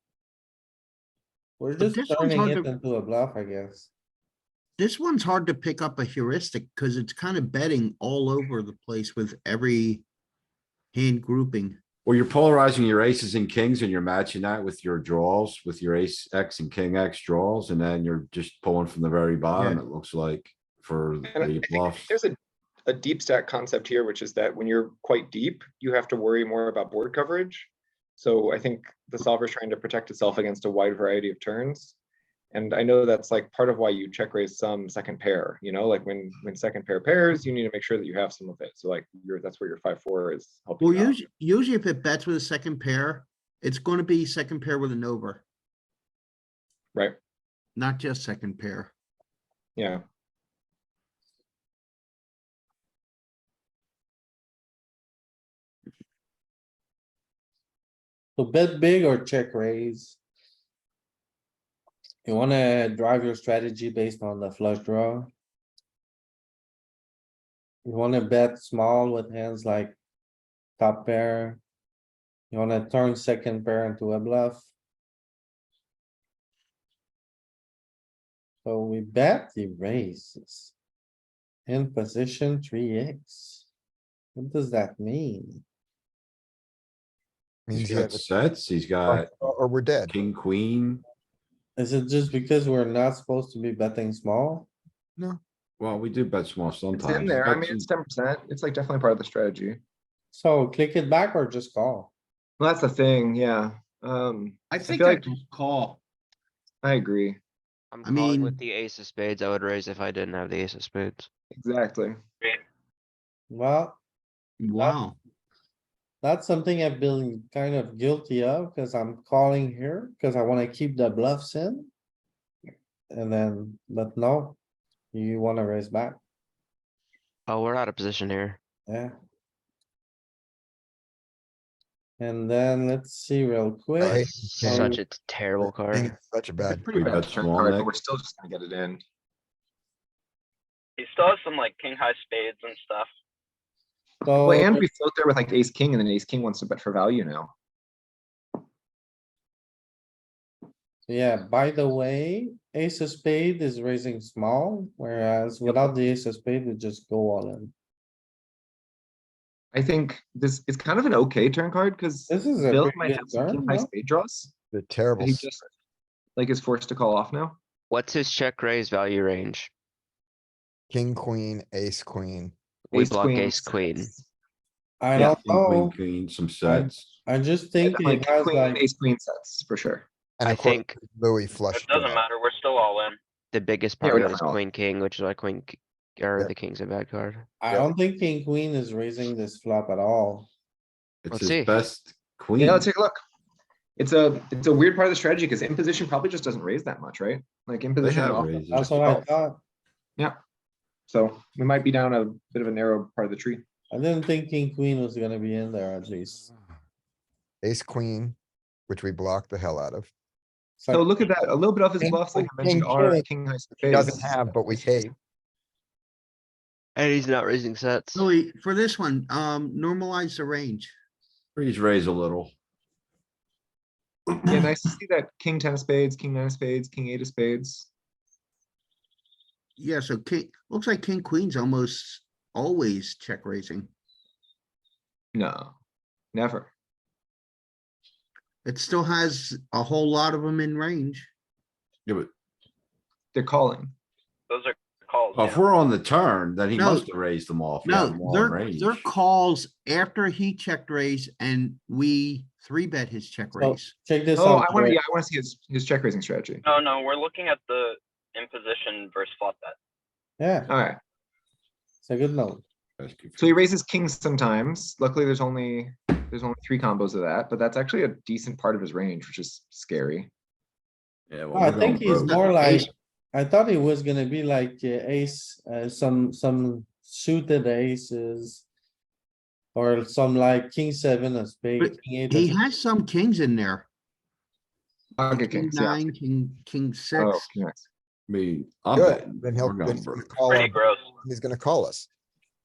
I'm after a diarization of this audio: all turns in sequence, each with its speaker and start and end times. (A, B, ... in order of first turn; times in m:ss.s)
0:01.6-0:03.9 A
0:01.8-0:02.7 B
0:04.8-0:10.0 B
0:10.9-0:11.8 B
0:12.0-0:22.1 C
0:19.6-0:19.8 B
0:21.3-0:22.3 D
0:22.9-0:32.0 D
0:32.5-0:41.3 D
0:40.8-0:45.4 B
0:47.7-0:48.9 B
0:49.8-0:50.0 D
0:58.4-1:00.2 A
1:02.2-1:05.3 A
1:07.8-1:10.0 A
1:10.8-1:11.6 A
1:12.5-1:14.7 A
1:18.6-1:20.7 A
1:21.7-1:23.7 A
1:24.4-1:25.6 A
1:27.7-1:28.2 E
1:27.7-1:29.3 C
1:29.1-1:30.1 E
1:30.1-1:31.0 C
1:31.8-1:34.7 A
1:35.8-1:37.9 C
1:36.9-1:39.8 D
1:40.3-1:42.1 A
1:42.6-1:45.4 D
1:44.7-1:46.0 B
1:46.8-1:47.4 D
1:47.9-1:51.3 F
1:48.0-1:48.6 B
1:51.6-1:52.2 D
1:53.5-1:54.0 A
1:54.6-1:55.2 B
1:56.2-2:01.9 A
2:03.1-2:04.6 A
2:05.1-2:06.2 A
2:07.5-2:08.6 F
2:08.9-2:09.1 A
2:12.2-2:15.0 A
2:14.0-2:14.9 E
2:14.3-2:16.2 F
2:15.6-2:16.8 E
2:16.6-2:19.0 D
2:16.9-2:17.9 C
2:21.0-2:23.1 G
2:24.2-2:24.8 A
2:24.4-2:27.5 D
2:31.1-2:37.7 A
2:35.6-2:35.9 D
2:39.7-2:44.5 D
2:42.3-2:43.9 A
2:44.7-2:45.5 E
2:45.2-2:45.7 D
2:46.4-2:47.6 D
2:47.9-2:49.7 F
2:50.9-2:52.5 E
2:52.9-2:54.1 F
2:52.9-2:54.2 D
2:55.0-2:56.0 A
2:55.2-2:57.1 C
2:56.6-2:58.8 A
2:57.8-3:00.1 D
3:00.4-3:02.2 E
3:00.4-3:01.0 F
3:01.7-3:03.2 G
3:03.5-3:07.5 F
3:04.0-3:04.6 D
3:07.6-3:10.5 A
3:11.2-3:12.9 C
3:11.3-3:11.8 F
3:12.6-3:13.2 D
3:14.0-3:19.2 D
3:18.0-3:19.2 C
3:18.7-3:19.6 A
3:21.1-3:23.6 D
3:23.9-3:26.5 A
3:27.6-3:28.4 E
3:28.9-3:30.1 E
3:30.8-3:31.1 A
3:30.9-3:34.5 D
3:32.0-3:32.6 B
3:32.6-3:33.2 E
3:33.9-3:35.2 E
3:37.0-3:38.2 F
3:38.2-3:40.9 B
3:41.6-3:42.5 C
3:44.5-3:47.9 D
3:49.8-3:53.9 B
3:55.3-3:55.7 D
3:56.3-3:56.7 D
3:58.6-4:01.3 B
4:02.1-4:02.3 C
4:03.3-4:03.9 D
4:04.5-4:05.6 G
4:05.3-4:09.1 C
4:06.8-4:07.1 B
4:07.8-4:13.9 B
4:13.6-4:15.0 A
4:14.4-4:16.6 D
4:16.6-4:19.8 G
4:20.4-4:20.7 A
4:20.7-4:21.0 D
4:22.0-4:22.6 A
4:23.0-4:23.5 C
4:23.4-4:30.3 D
4:31.3-4:32.8 C
4:31.5-4:38.6 A
4:32.4-4:32.8 D
4:39.7-4:42.6 A
4:41.8-4:43.9 B
4:45.2-4:46.0 D
4:45.3-4:47.5 B
4:47.2-4:47.9 D
4:48.3-4:50.4 C
4:48.9-4:52.1 E
4:50.4-4:51.1 G